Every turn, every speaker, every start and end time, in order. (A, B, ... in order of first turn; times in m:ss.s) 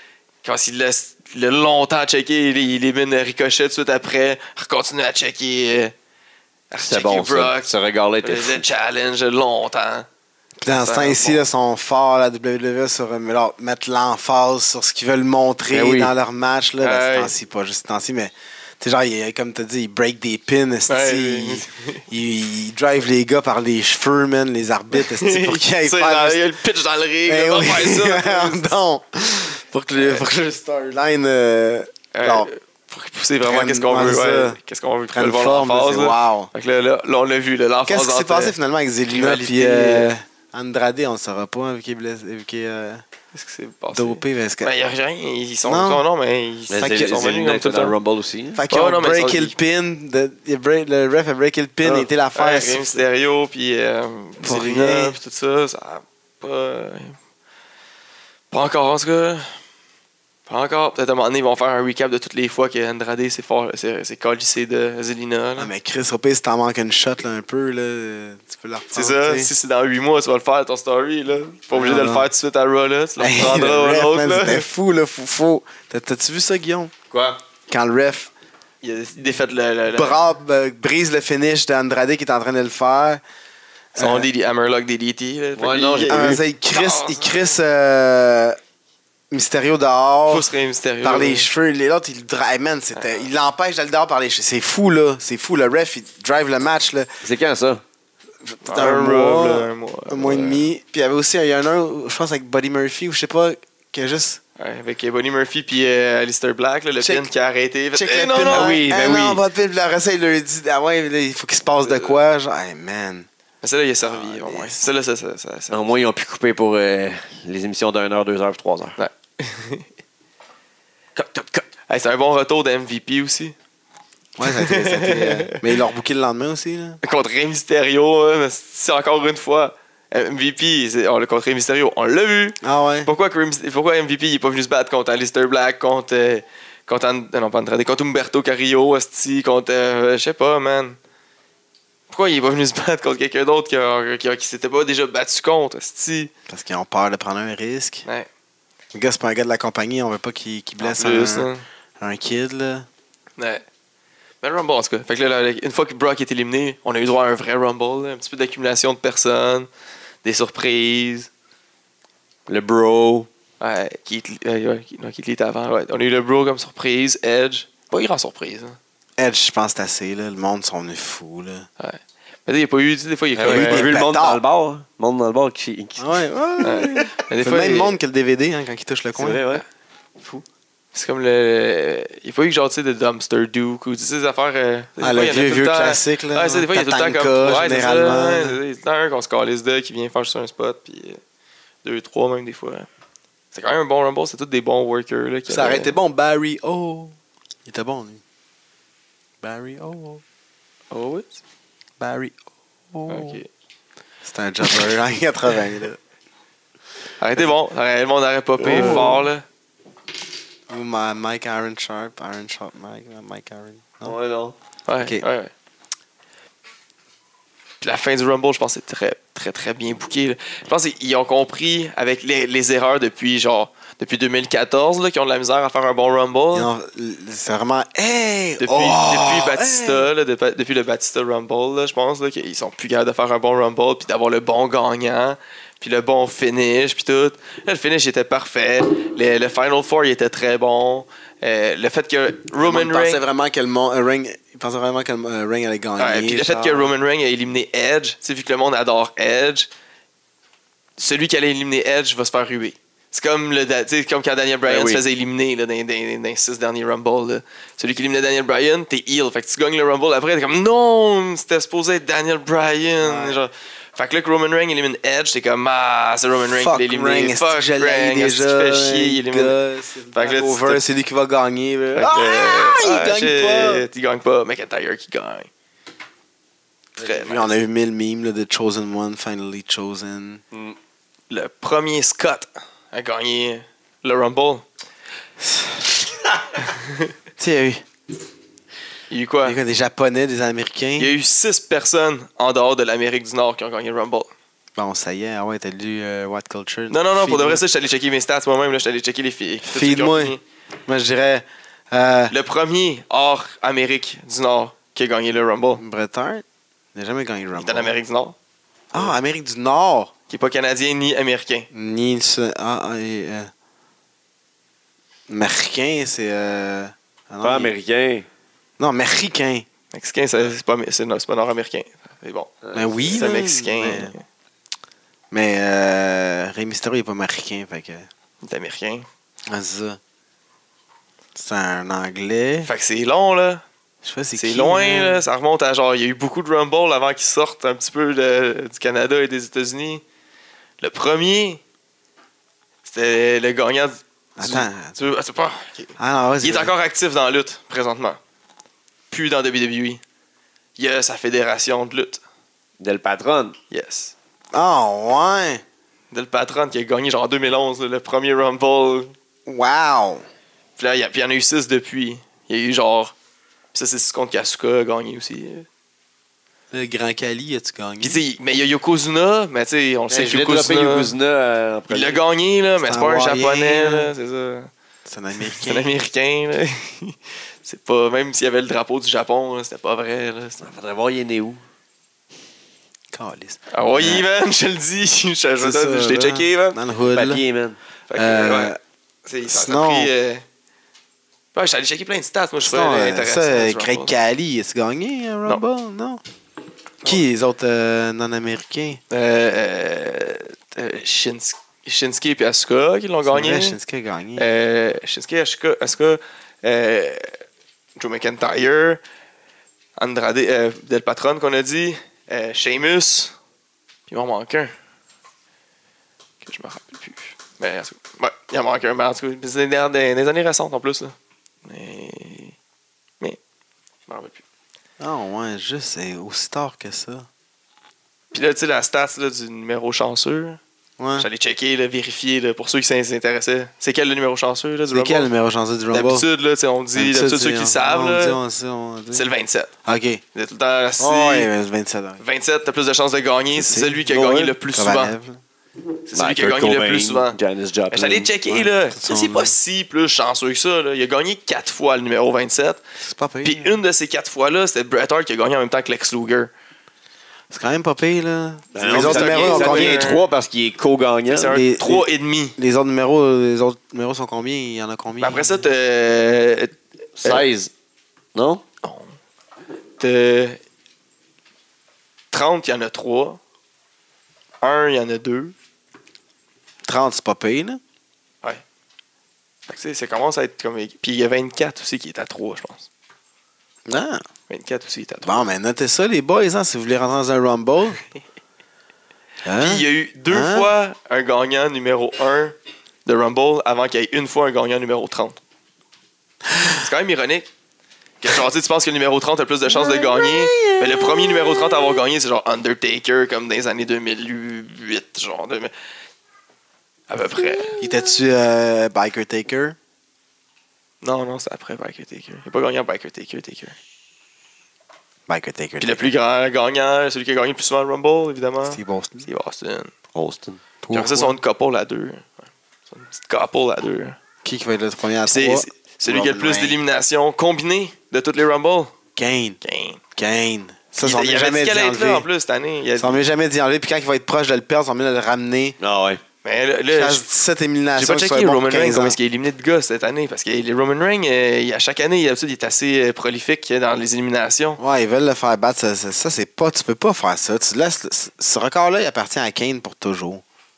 0:00.4-0:05.9 A
0:06.7-0:07.7 A
0:06.8-0:08.6 B
0:08.2-0:10.1 A
0:10.6-0:26.4 C
0:10.7-0:11.4 A
0:15.7-0:16.1 B
0:16.8-0:17.3 A
0:20.9-0:22.0 A
0:24.9-0:28.7 A
0:27.2-0:32.5 C
0:32.1-0:38.5 A
0:33.4-0:34.6 C
0:35.1-0:36.5 C
0:37.8-0:43.0 C
0:39.1-0:40.1 A
0:43.3-0:48.0 A
0:43.9-0:44.7 C
0:45.6-0:46.0 C
0:46.7-0:48.6 B
0:46.8-0:47.2 C
0:48.5-0:53.0 C
0:48.7-0:49.5 A
0:51.9-0:57.2 A
0:54.4-0:55.2 C
0:58.5-0:59.5 A
1:00.5-1:05.7 A
1:05.6-1:09.5 C
1:08.9-1:14.6 A
1:11.7-1:12.3 C
1:13.2-1:16.9 C
1:17.1-1:17.4 B
1:17.7-1:18.3 C
1:18.8-1:20.2 A
1:19.9-1:23.2 C
1:23.9-1:24.3 C
1:24.0-1:27.5 A
1:25.6-1:26.4 B
1:26.1-1:28.6 C
1:29.3-1:30.5 C
1:30.3-1:31.5 A
1:31.0-1:37.1 C
1:32.9-1:33.2 A
1:37.2-1:37.8 B
1:38.4-1:44.4 C
1:38.6-1:40.6 A
1:44.6-1:48.8 A
1:47.0-1:47.3 C
1:47.9-1:53.3 C
1:48.5-1:49.4 B
1:53.6-1:55.8 A
1:54.1-1:54.8 C
1:55.7-1:59.0 B
1:59.0-1:59.9 A
2:01.2-2:03.5 A
2:04.4-2:07.0 C
2:04.4-2:05.7 A
2:07.0-2:21.0 A
2:12.6-2:13.1 C
2:22.1-2:26.3 A
2:26.5-2:28.0 C
2:28.9-2:32.9 C
2:30.8-2:31.6 A
2:33.4-2:33.6 A
2:34.4-2:39.7 A
2:40.2-2:41.3 A
2:42.5-2:43.3 B
2:43.6-2:48.8 A
2:49.2-2:51.7 C
2:51.8-2:53.9 A
2:53.4-2:56.2 B
2:53.4-2:54.4 C
2:56.0-2:59.4 C
2:56.6-2:58.0 A
2:59.2-2:59.6 B
3:00.9-3:11.2 A
3:05.0-3:08.6 C
3:11.8-3:12.9 A
3:13.5-3:16.0 A
3:15.5-3:18.2 C
3:19.4-3:20.2 C
3:20.9-3:21.4 A
3:22.0-3:22.3 C
3:22.9-3:23.4 C
3:23.1-3:23.5 A
3:24.2-3:26.0 C
3:27.2-3:29.4 A
3:28.6-3:29.2 B
3:28.6-3:29.2 C
3:30.7-3:34.2 C
3:34.0-3:34.5 B
3:34.8-3:35.5 A
3:37.8-3:46.7 A
3:46.5-3:50.1 C
3:48.6-4:03.2 A
4:02.6-4:06.9 C
4:06.0-4:09.7 A
4:11.0-4:29.5 A
4:14.7-4:15.0 B
4:23.0-4:23.4 C
4:26.5-4:33.8 C
4:30.1-4:30.8 A
4:31.9-4:35.5 A
4:37.0-4:40.4 C
4:37.0-4:37.5 A
4:41.3-4:44.6 A
4:45.4-4:46.1 C
4:46.6-4:47.0 A
4:47.4-4:47.8 C
4:49.1-4:49.6 A
4:49.4-4:51.1 C
4:51.0-4:54.3 A
4:54.8-4:57.6 C
4:56.9-5:00.4 A
4:59.6-5:02.3 C
5:02.3-5:05.8 A
5:05.8-5:06.4 C
5:06.9-5:07.9 C
5:07.6-5:08.4 A
5:08.9-5:10.1 C
5:10.3-5:11.7 A
5:11.7-5:13.5 C
5:15.3-5:17.7 C
5:17.4-5:18.2 B
5:18.8-5:19.6 C
5:19.9-5:22.5 A
5:22.6-5:23.2 B
5:22.7-5:24.1 C
5:23.1-5:24.2 A
5:25.3-5:28.1 C
5:28.4-5:29.1 A
5:29.5-5:30.0 C
5:31.3-5:32.7 C
5:32.6-5:33.6 A
5:34.0-5:35.2 C
5:34.4-5:40.0 A
5:40.8-5:41.6 A
5:42.8-5:48.2 A
5:44.4-5:44.9 C
5:46.0-5:46.7 C
5:49.1-5:50.0 A
5:50.8-5:52.2 A
5:52.8-5:53.5 B
5:53.7-5:54.1 A
5:54.5-5:55.6 C
5:56.1-5:59.1 A
5:59.4-6:00.2 C
6:00.8-6:03.1 A
6:03.7-6:05.7 A
6:06.7-6:08.2 C
6:08.0-6:11.1 A
6:10.1-6:12.2 B
6:11.9-6:14.7 A
6:12.8-6:14.1 C
6:15.0-6:15.9 C
6:15.4-6:20.6 A
6:20.6-6:21.6 B
6:23.1-6:24.2 C
6:23.7-6:26.8 A
6:25.6-6:27.4 C
6:27.1-6:27.8 B
6:28.1-6:28.7 A
6:28.1-6:28.8 C
6:29.2-6:30.4 A
6:29.5-6:30.1 C
6:31.5-6:34.1 A
6:32.6-6:36.2 C
6:37.0-6:39.0 C
6:39.1-6:43.8 A
6:43.2-6:44.5 C
6:44.4-6:47.4 A
6:48.0-6:49.0 A
6:50.0-6:53.3 A
6:54.1-6:54.7 A
6:56.4-7:01.1 A
7:01.6-7:02.6 A
7:04.1-7:04.4 A
7:05.0-7:07.3 C
7:08.3-7:10.6 A
7:11.0-7:11.3 C
7:11.2-7:15.3 A
7:14.9-7:16.2 C
7:15.9-7:18.4 A
7:17.0-7:19.3 C
7:19.1-7:19.7 A
7:19.8-7:20.2 C
7:20.3-7:21.5 A
7:21.0-7:22.2 C
7:22.2-7:25.1 A
7:23.5-7:24.0 C
7:24.1-7:24.6 B
7:24.7-7:25.4 C
7:26.1-7:27.4 A
7:26.1-7:28.3 B
7:27.9-7:32.8 A
7:28.4-7:29.5 C
7:33.0-7:33.8 C
7:33.4-7:36.5 A
7:37.5-7:40.1 C
7:38.7-7:41.5 B
7:38.8-7:40.2 A
7:41.3-7:42.6 A
7:41.5-7:45.5 C
7:45.2-7:47.4 A
7:47.2-7:47.7 B
7:48.3-7:48.6 B
7:48.8-7:49.1 A
7:50.0-7:50.6 A
7:52.3-7:53.4 A
7:54.6-7:55.5 A
7:56.8-7:57.8 C
7:59.7-8:02.9 A
8:03.9-8:04.2 C
8:04.5-8:05.4 A
8:05.2-8:08.0 C
8:09.4-8:10.7 C
8:09.6-8:15.4 A
8:16.7-8:17.5 A
8:18.2-8:25.7 A
8:19.7-8:21.5 C
8:27.1-8:27.8 A
8:27.8-8:29.8 C
8:31.0-8:33.8 A
8:35.3-8:36.0 C
8:35.8-8:39.9 A
8:38.7-8:39.3 C
8:40.1-8:40.6 B
8:40.8-8:41.4 C
8:40.9-8:44.2 A
8:44.4-8:46.8 C
8:45.2-8:48.9 A
8:49.2-8:49.6 C
8:49.6-8:50.0 A
8:50.2-8:52.2 C
8:51.0-8:53.2 A
8:53.0-8:55.8 C
8:55.8-8:56.2 B
8:56.4-8:57.3 A
8:56.9-8:59.2 C
8:58.0-9:04.8 A
9:04.8-9:10.4 C